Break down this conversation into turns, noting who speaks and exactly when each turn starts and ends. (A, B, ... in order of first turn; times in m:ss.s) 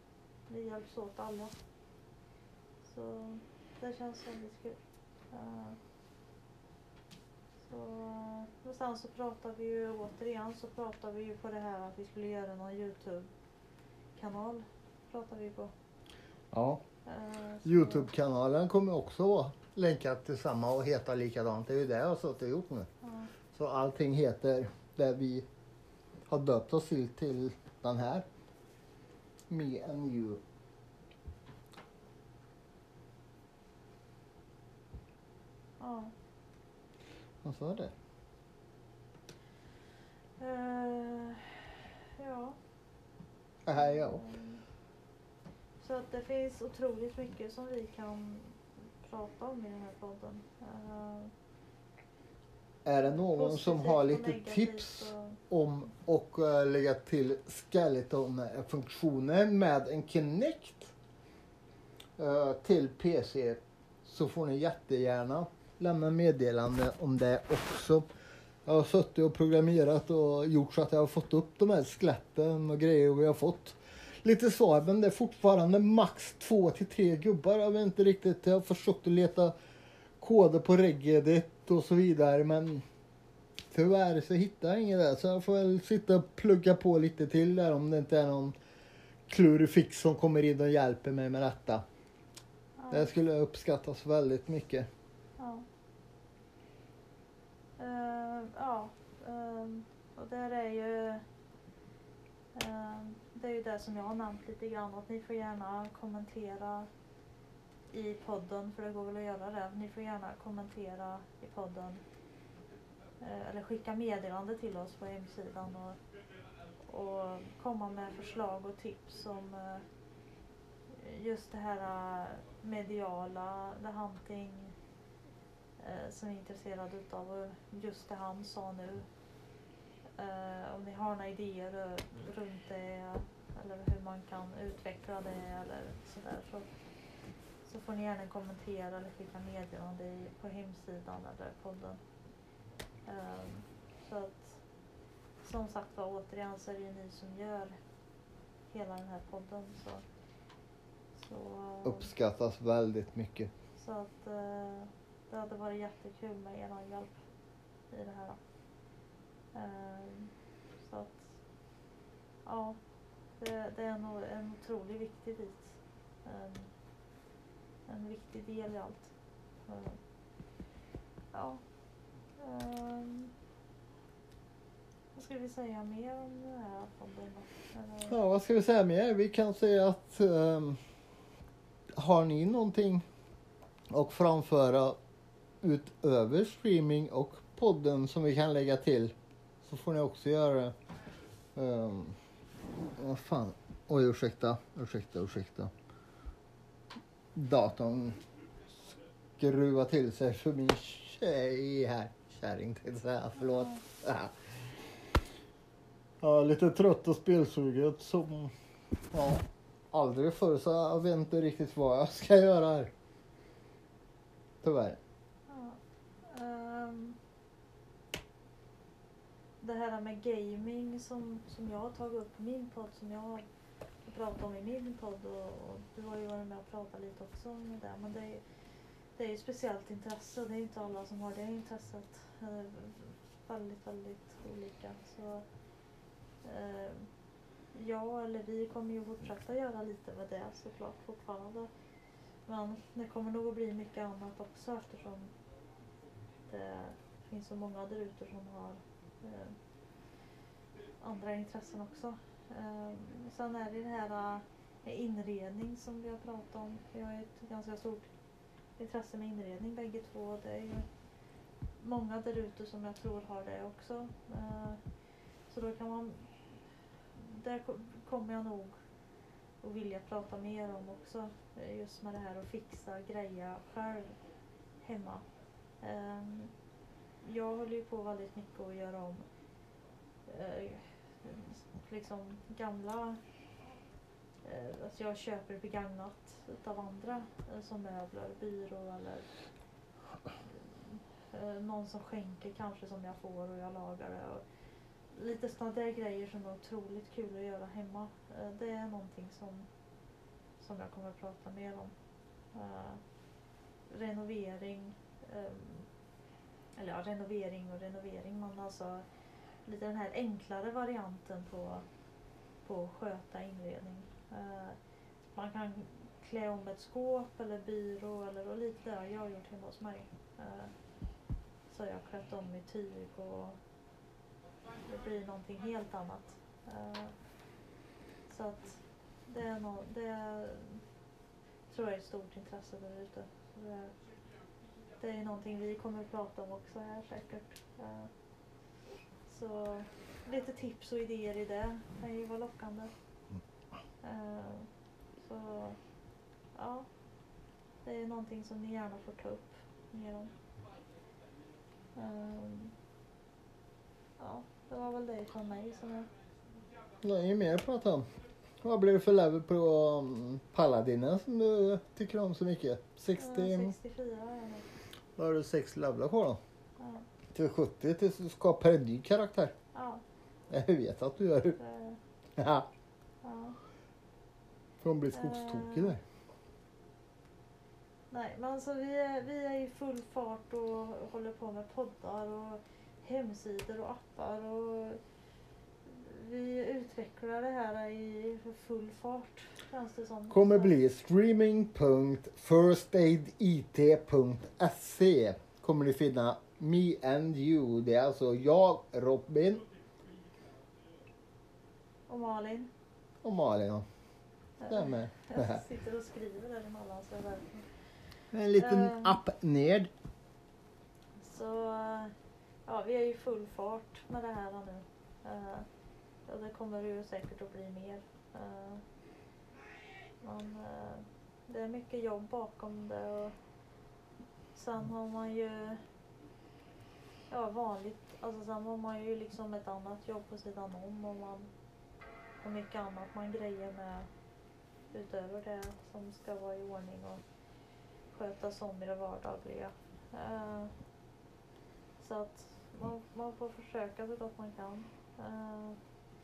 0:00.5-0:01.5 A
0:02.8-0:04.8 A
0:05.3-0:05.8 A
0:07.7-0:13.3 A
0:14.2-0:15.7 A
0:16.5-0:16.8 B
0:17.0-0:18.1 A
0:17.6-0:22.9 B
0:23.0-0:23.3 A
0:23.5-0:25.4 B
0:26.3-0:28.2 B
0:29.5-0:30.4 B
0:35.8-0:36.1 A
0:37.4-0:37.9 B
0:40.4-0:42.6 A
0:43.6-0:44.2 B
0:43.7-0:44.6 A
0:45.8-0:51.3 A
0:52.8-1:00.9 B
0:53.1-0:55.4 A
1:02.2-1:08.0 B
1:08.6-1:19.5 B
1:20.2-1:22.8 B
1:23.7-1:28.6 B
1:29.3-1:31.8 B
1:32.8-1:33.1 A
1:32.9-1:34.9 B
1:35.4-1:35.6 A
1:37.8-1:41.2 A
1:42.5-1:46.9 A
1:47.9-1:52.0 A
1:53.2-1:56.0 A
1:56.9-1:59.8 A
2:00.9-2:04.7 A
2:05.8-2:09.0 A
2:10.2-2:16.7 A
2:17.6-2:22.0 A
2:23.0-2:24.6 A
2:25.4-2:27.7 A
2:28.7-2:30.0 A
2:31.2-2:32.1 A
2:31.8-2:33.5 B
2:33.8-2:37.2 A
2:37.9-2:38.4 A
2:39.5-2:41.2 A
2:42.4-2:42.8 A
2:43.4-2:46.7 A
2:47.9-2:49.1 A
2:49.6-2:50.0 A
2:51.3-2:51.6 A
2:52.4-2:53.3 A
2:55.1-2:58.2 A
2:58.1-3:00.8 B
3:02.0-3:03.0 B
3:03.9-3:05.0 B
3:05.6-3:10.7 B
3:11.6-3:12.1 B
3:13.0-3:15.7 B
3:17.3-3:18.2 B
3:19.4-3:24.3 B
3:23.4-3:23.8 A
3:26.2-3:28.5 B
3:29.1-3:32.9 B
3:34.6-3:35.0 B
3:35.5-3:37.2 A
3:39.6-3:43.4 A
3:44.0-3:48.4 A
3:49.2-3:55.4 A
3:56.4-3:57.1 A
3:57.7-4:01.7 A
4:02.4-4:05.3 A
4:06.5-4:09.5 A
4:11.0-4:18.1 A
4:18.8-4:20.8 A
4:21.8-4:24.8 A
4:25.5-4:26.3 A
4:27.1-4:28.8 A
4:29.6-4:34.1 A
4:34.8-4:35.2 A
4:35.8-4:36.5 A
4:37.2-4:39.2 A
4:40.3-4:43.2 A
4:44.4-4:49.3 A
4:50.5-4:54.4 A
4:55.1-4:59.6 A
5:00.6-5:01.9 A
5:02.5-5:03.0 A
5:03.9-5:05.9 A
5:06.8-5:09.0 A
5:09.6-5:11.8 A
5:12.6-5:14.8 A
5:15.3-5:20.7 A
5:21.7-5:23.6 A
5:24.8-5:27.1 A
5:28.3-5:30.8 A
5:31.7-5:33.9 A
5:35.0-5:38.1 A
5:39.3-5:42.9 A
5:44.0-5:45.8 A
5:46.5-5:46.8 A
5:47.8-5:50.3 A
5:51.9-5:52.7 A
5:54.2-5:56.1 A
5:57.0-5:58.1 B
5:58.6-6:03.7 B
6:03.2-6:04.6 A
6:05.2-6:06.4 B
6:06.8-6:07.0 A
6:07.3-6:09.5 B
6:09.7-6:10.0 A
6:10.5-6:11.6 B
6:11.6-6:12.0 A
6:12.4-6:12.7 B
6:13.2-6:13.6 A
6:14.8-6:16.0 B
6:15.1-6:15.9 A
6:18.1-6:25.0 A
6:25.8-6:30.7 A
6:30.3-6:39.6 B
6:42.1-6:42.7 A
6:43.2-6:43.8 B
6:44.6-6:47.7 A
6:44.7-6:45.6 B
6:48.3-6:49.9 B
6:48.6-6:49.2 A
6:51.2-6:52.1 A
6:52.6-6:55.6 A
6:56.2-6:58.8 A
7:00.2-7:03.3 A
7:04.5-7:05.8 A
7:07.3-7:11.5 A
7:12.4-7:14.1 A
7:14.9-7:17.2 A
7:18.1-7:20.7 A
7:22.0-7:25.8 A